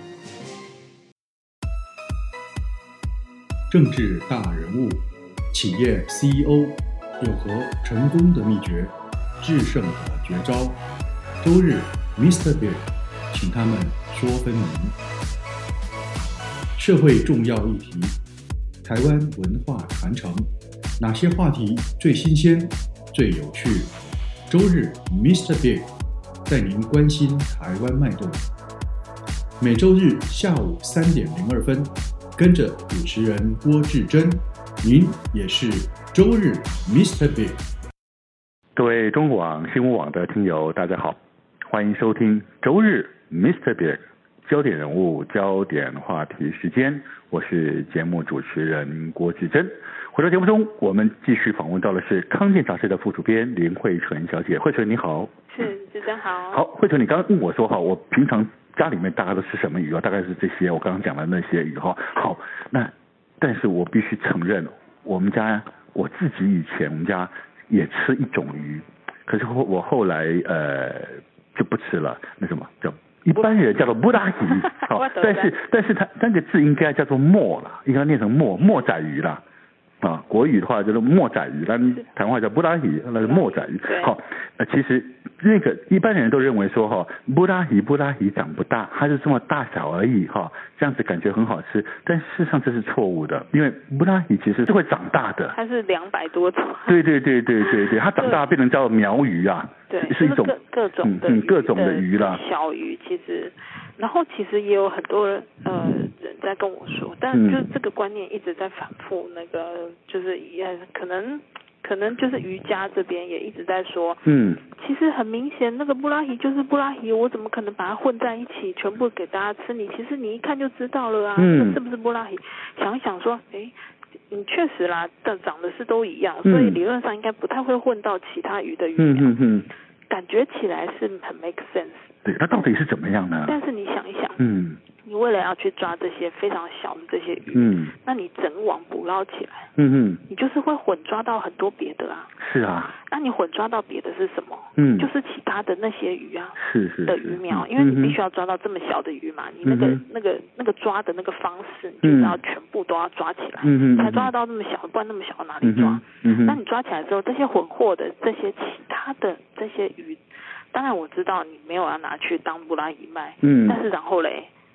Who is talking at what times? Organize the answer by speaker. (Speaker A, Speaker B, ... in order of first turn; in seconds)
Speaker A: 3.7-10.8, 11.4-15.0, 16.8-18.2, 18.8-23.9, 24.5-25.9, 26.5-28.5, 29.6-37.6
Speaker B: 38.8-55.3, 56.5-79.4, 80.0-95.5, 96.9-102.4, 107.3-107.7, 114.2-114.6, 121.3-121.8, 126.4-126.8, 128.9-129.7, 132.2-133.6, 134.4-134.8, 137.5-137.9, 139.8-140.2, 142.4-142.9, 144.8-145.1, 146.6-148.2, 149.6-150.0, 152.0-152.4, 153.6-154.3, 155.6-156.6, 163.4-163.8
Speaker C: 55.5-56.6, 73.3-73.9, 74.4-75.5, 83.2-84.2, 95.5-97.0, 97.6-98.5, 99.9-123.7, 124.3-129.4, 130.1-132.6, 133.4-134.4, 135.0-139.7, 140.3-142.3, 142.9-164.5